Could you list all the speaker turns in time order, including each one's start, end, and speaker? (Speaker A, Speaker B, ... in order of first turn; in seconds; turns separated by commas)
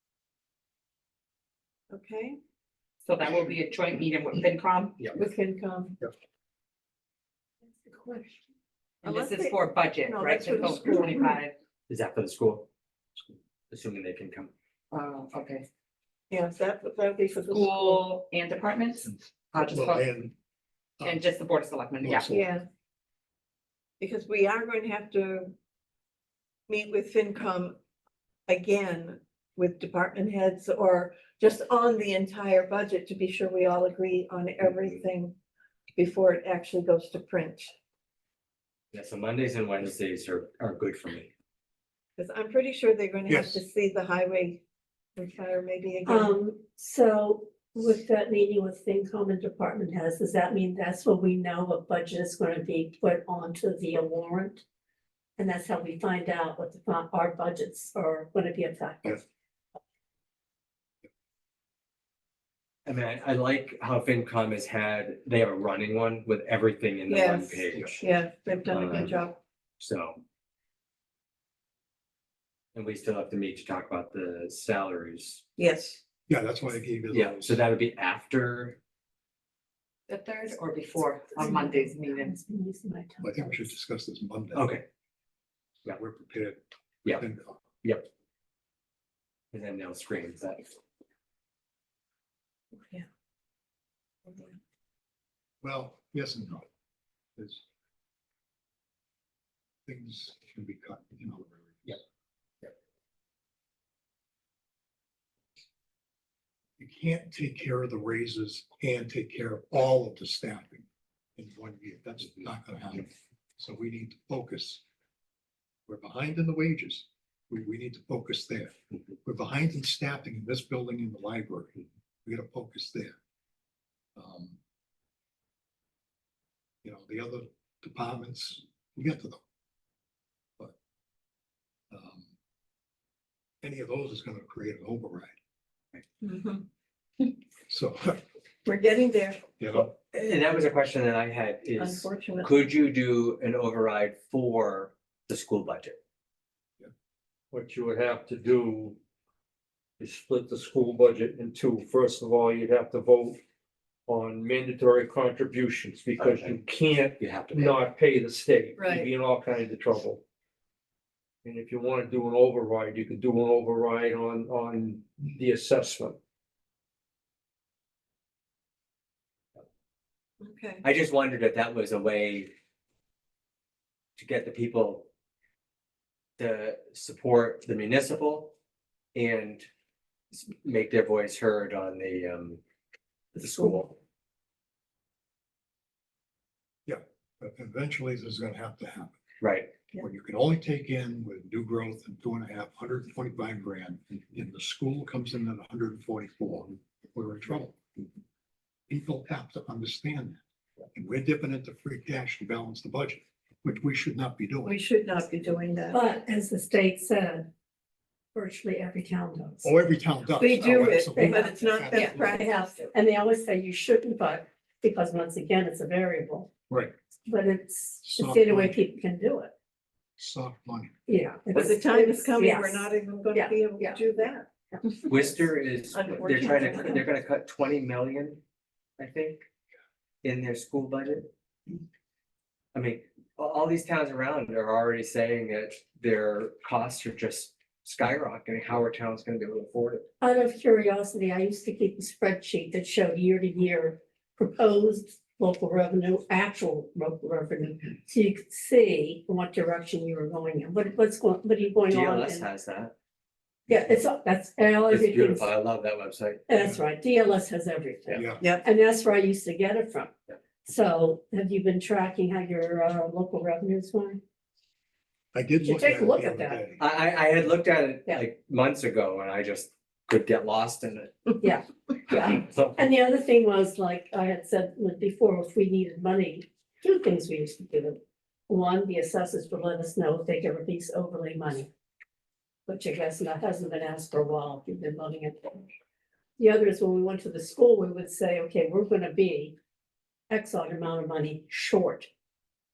Speaker A: 1.9-2.4, Speaker B: 3.0-5.0, Speaker A: 5.1-6.0, Speaker B: 9.0-11.5, Speaker A: 9.0-11.4, Speaker C: 11.9-12.7, Speaker C: 13.7-14.5, Speaker B: 14.9-15.7, Speaker A: 16.3-18.0, Speaker B: 17.5-20.1, Speaker D: 19.6-20.3, Speaker D: 21.0-21.3, Speaker B: 21.0-22.3, Speaker D: 22.0-22.4, Speaker A: 22.3-22.6, Speaker A: 24.0-25.5, Speaker A: 26.7-27.8, Speaker A: 28.5-35.3, Speaker C: 34.6-35.0, Speaker A: 36.0-37.7, Speaker C: 38.9-41.3, Speaker A: 42.2-44.6, Speaker D: 43.3-43.6, Speaker A: 45.1-46.3, Speaker E: 46.0-54.6, Speaker E: 55.4-59.2, Speaker C: 62.9-68.0, Speaker A: 67.1-69.4, Speaker C: 68.7-69.2, Speaker C: 69.8-70.2, Speaker C: 72.7-75.4, Speaker A: 75.6-76.0, Speaker D: 76.3-77.6, Speaker C: 77.1-78.8, Speaker B: 80.1-82.3, Speaker E: 81.4-83.5, Speaker D: 83.2-84.7, Speaker C: 84.5-84.8, Speaker D: 85.8-87.6, Speaker C: 89.5-90.7, Speaker A: 94.2-94.5, Speaker D: 95.6-96.7, Speaker D: 97.4-97.6, Speaker D: 99.8-102.0, Speaker D: 106.8-110.8, Speaker D: 111.4-114.8, Speaker D: 115.9-118.7, Speaker D: 119.2-123.1, Speaker D: 124.2-124.6, Speaker D: 126.8-129.4, Speaker D: 131.9-132.3, Speaker D: 133.6-135.3, Speaker A: 136.2-136.7, Speaker D: 137.7-138.2, Speaker A: 138.6-139.4, Speaker D: 139.6-139.9, Speaker C: 139.7-146.0, Speaker A: 141.8-142.6, Speaker F: 147.5-149.0, Speaker F: 150.0-153.4, Speaker F: 154.1-160.2, Speaker C: 156.2-156.7, Speaker C: 157.2-157.8, Speaker A: 158.8-159.1, Speaker F: 161.4-166.2, Speaker A: 170.4-170.8, Speaker C: 170.8-172.5, Speaker C: 174.2-175.1, Speaker C: 176.4-178.5, Speaker C: 179.1-179.7, Speaker C: 180.3-182.6, Speaker C: 183.3-183.9, Speaker D: 186.8-189.2, Speaker C: 189.4-189.7, Speaker D: 189.9-197.8, Speaker D: 198.9-200.4, Speaker D: 200.9-204.7, Speaker A: 204.6-206.0, Speaker E: 205.9-207.5, Speaker E: 208.3-209.7, Speaker D: 209.6-212.4, Speaker A: 210.4-212.9, Speaker E: 211.1-216.5, Speaker E: 217.3-219.5, Speaker D: 218.0-218.8, Speaker D: 220.2-220.9, Speaker E: 221.1-224.1, Speaker A: 221.5-225.1, Speaker C: 225.1-228.4, Speaker A: 225.9-227.0, Speaker C: 229.0-229.4, Speaker C: 230.2-231.3, Speaker C: 232.7-240.1, Speaker E: 240.2-252.4, Speaker C: 251.9-252.9, Speaker E: 253.7-255.5, Speaker C: 254.9-256.4, Speaker E: 256.5-260.1, Speaker D: 258.1-258.4, Speaker E: 260.6-264.2, Speaker D: 265.3-266.8, Speaker E: 265.6-266.6, Speaker C: 266.8-271.4, Speaker E: 271.4-278.0, Speaker C: 272.1-272.9, Speaker E: 278.5-281.7, Speaker E: 282.7-285.6, Speaker E: 286.4-289.6, Speaker E: 290.3-292.1